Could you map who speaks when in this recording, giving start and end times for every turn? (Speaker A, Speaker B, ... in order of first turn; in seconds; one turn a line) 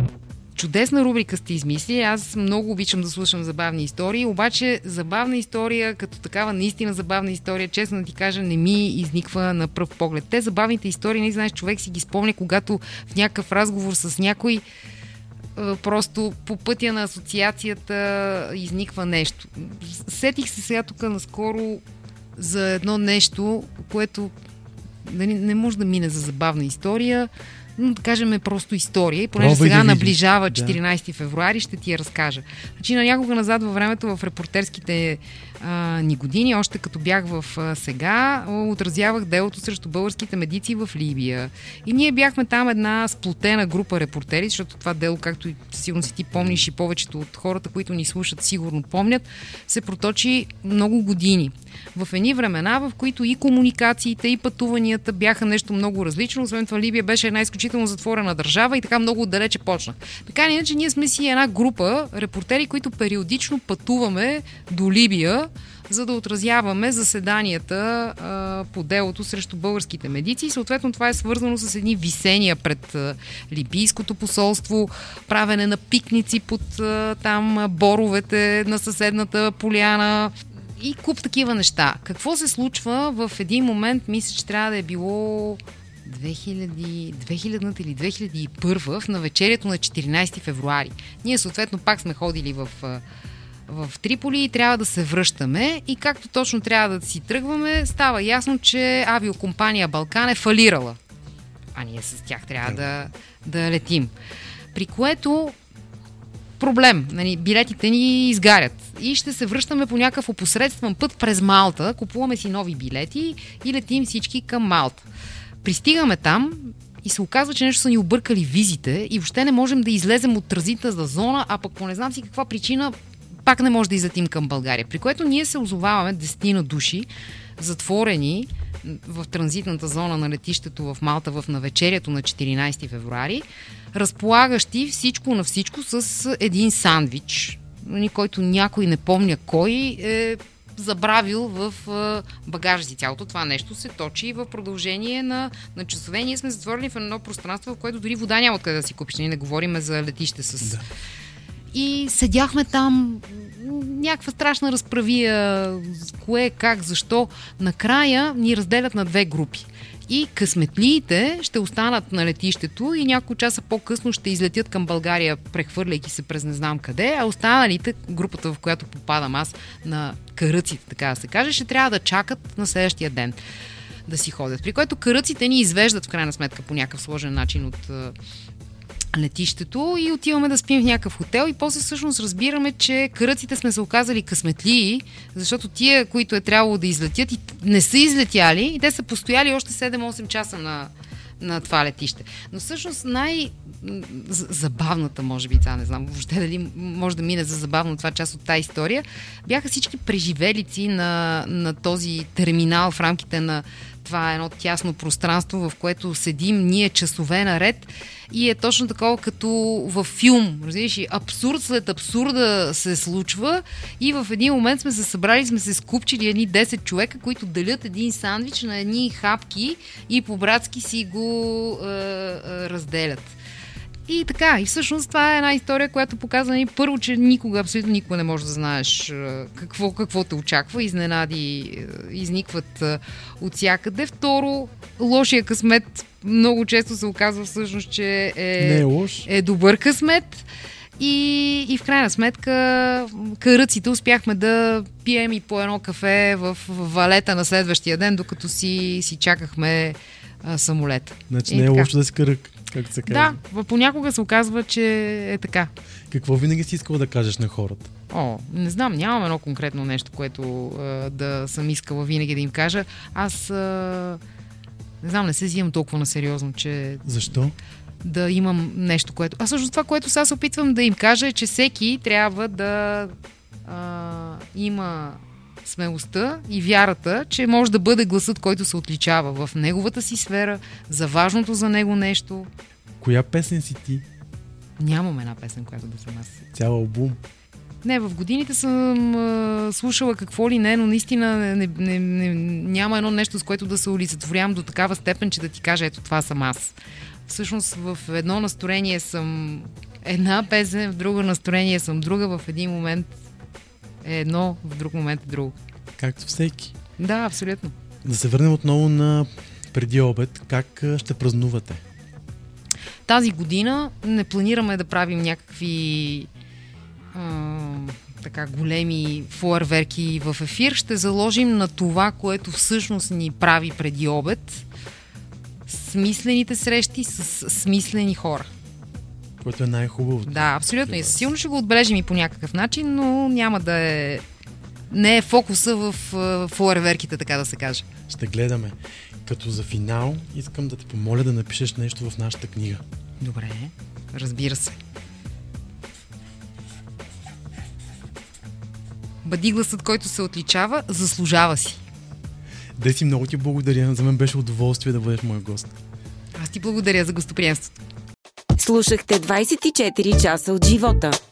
Speaker A: 0.6-14.6
Speaker A: 15.6-21.8
Speaker A: 22.4-24.3
Speaker A: 25.1-93.0
Speaker B: 29.4-30.8
Speaker A: 93.7-101.0
Speaker A: 101.7-104.1
Speaker A: 104.7-105.5
Speaker A: 106.6-115.0
Speaker A: 115.6-122.9
Speaker A: 123.5-150.8
Speaker A: 151.7-173.4
Speaker A: 174.1-178.2
Speaker A: 179.1-223.3
Speaker A: 224.1-240.4
Speaker B: 238.6-239.3
Speaker A: 241.0-251.9
Speaker B: 251.3-253.4
Speaker A: 253.1-255.7
Speaker B: 256.1-257.9
Speaker A: 258.1-264.2
Speaker A: 265.0-267.1
Speaker B: 267.0-267.6
Speaker A: 268.0-273.1
Speaker A: 273.6-282.5
Speaker B: 283.0-284.1
Speaker A: 284.8-286.4
Speaker B: 286.5-287.2
Speaker A: 287.8-296.7
Speaker A: 297.3-303.1
Speaker A: 304.0-305.6
Speaker B: 306.0-306.7
Speaker A: 307.0-307.7
Speaker B: 308.0-311.8
Speaker A: 313.1-316.3
Speaker A: 317.1-324.6
Speaker A: 325.7-328.5
Speaker B: 329.4-331.3
Speaker A: 330.2-334.2
Speaker A: 334.9-337.9
Speaker B: 338.1-342.8
Speaker A: 343.2-344.8
Speaker A: 349.2-351.8
Speaker B: 352.8-355.7
Speaker A: 356.4-357.8
Speaker C: 358.6-361.2